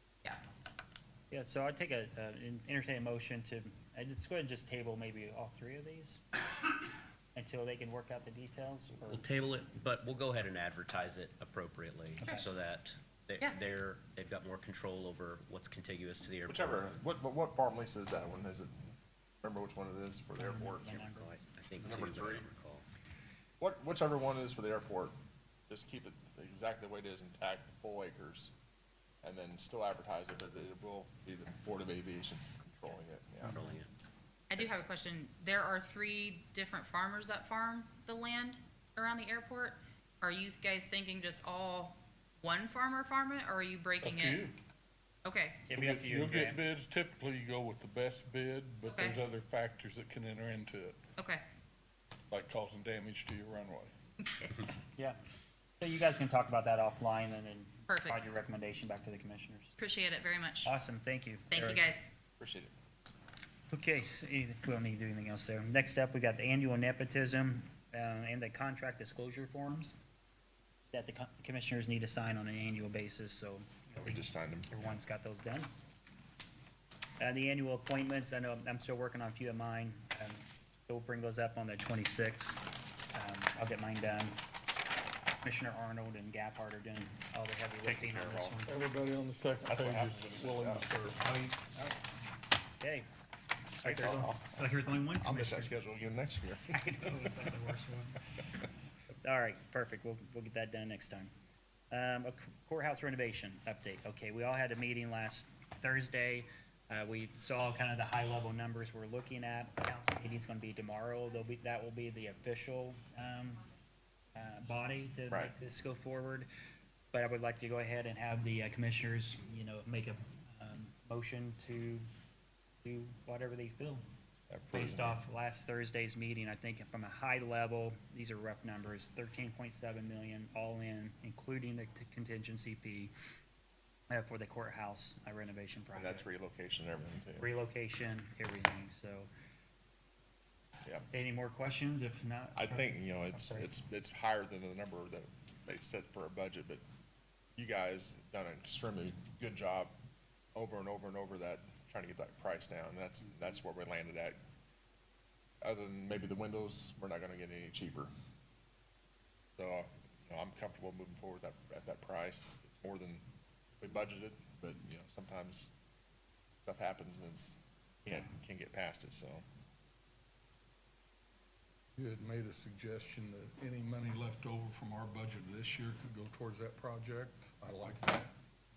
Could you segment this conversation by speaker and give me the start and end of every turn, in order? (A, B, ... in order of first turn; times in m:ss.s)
0:01.3-0:06.2 A
0:07.3-0:09.3 A
0:09.1-0:17.0 B
0:16.5-0:18.8 C
0:19.4-0:21.0 C
0:20.3-0:21.3 A
0:20.9-0:22.8 B
0:21.8-0:22.5 C
0:23.6-0:25.1 C
0:25.7-0:28.5 C
0:29.2-0:33.6 C
0:33.4-0:33.9 B
0:34.5-0:44.5 D
0:44.0-0:44.5 E
0:45.2-0:45.7 D
0:45.7-0:46.6 A
0:45.7-0:51.0 E
0:48.9-0:49.2 D
0:51.2-0:51.4 D
0:52.3-0:53.9 E
0:55.8-0:59.7 A
0:57.9-0:58.3 D
0:59.8-1:00.7 D
1:00.6-1:01.8 A
1:01.5-1:02.1 D
1:02.4-1:02.7 C
1:03.7-1:09.9 A
1:10.9-1:15.7 A
1:14.0-1:15.0 C
1:17.2-1:22.6 A
1:23.1-1:24.4 A
1:25.4-1:28.8 A
1:27.8-1:28.6 C
1:28.7-1:31.4 E
1:29.6-1:31.1 C
1:31.2-1:32.0 A
1:32.8-1:33.1 A
1:33.8-1:34.4 C
1:33.8-1:35.7 A
1:35.2-1:36.9 C
1:36.7-1:38.2 A
1:39.2-1:41.3 A
1:41.9-1:53.6 A
1:54.3-1:56.5 A
1:57.1-2:02.0 A
2:02.8-2:04.0 A
2:04.5-2:05.2 C
2:04.7-2:13.1 A
2:14.1-2:16.2 A
2:15.9-2:17.5 C
2:17.4-2:19.3 A
2:21.1-2:23.7 A
2:22.6-2:26.8 C
2:27.6-2:29.9 C
2:30.5-2:34.4 C
2:35.6-2:38.1 C
2:39.5-2:43.2 C
2:43.8-2:45.7 C
2:46.6-2:49.4 C
2:52.0-2:58.3 E